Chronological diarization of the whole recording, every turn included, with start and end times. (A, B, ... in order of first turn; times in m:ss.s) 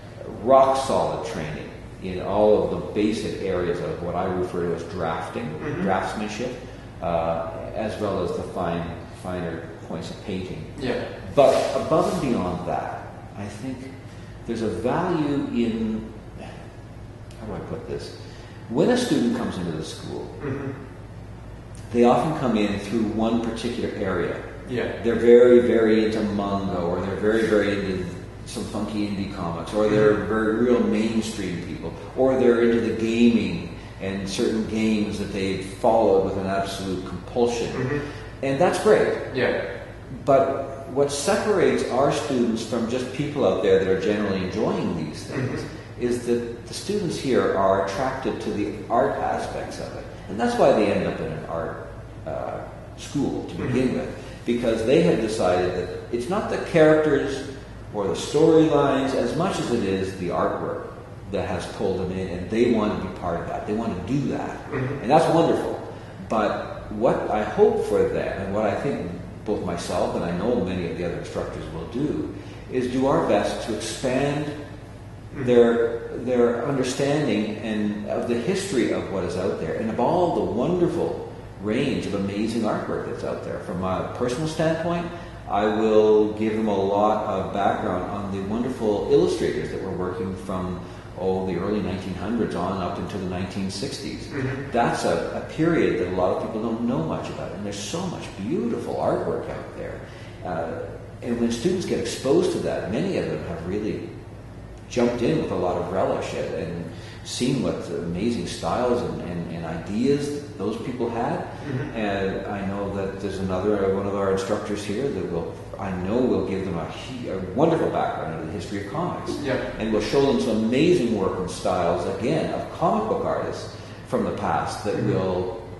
0:00.2-0:13.9 A
0:05.6-0:05.9 B
0:10.8-0:11.0 B
0:14.4-0:16.0 A
0:17.4-0:18.2 A
0:18.7-0:20.4 A
0:20.4-0:20.7 B
0:21.9-0:24.4 A
0:24.6-0:24.9 B
0:24.9-0:39.2 A
0:37.7-0:38.0 B
0:39.3-0:39.6 B
0:40.2-1:14.5 A
0:45.3-0:45.6 B
1:04.7-1:05.0 B
1:15.4-1:44.0 A
1:34.3-1:34.6 B
1:44.9-2:05.5 A
1:51.6-1:51.9 B
1:59.4-1:59.6 B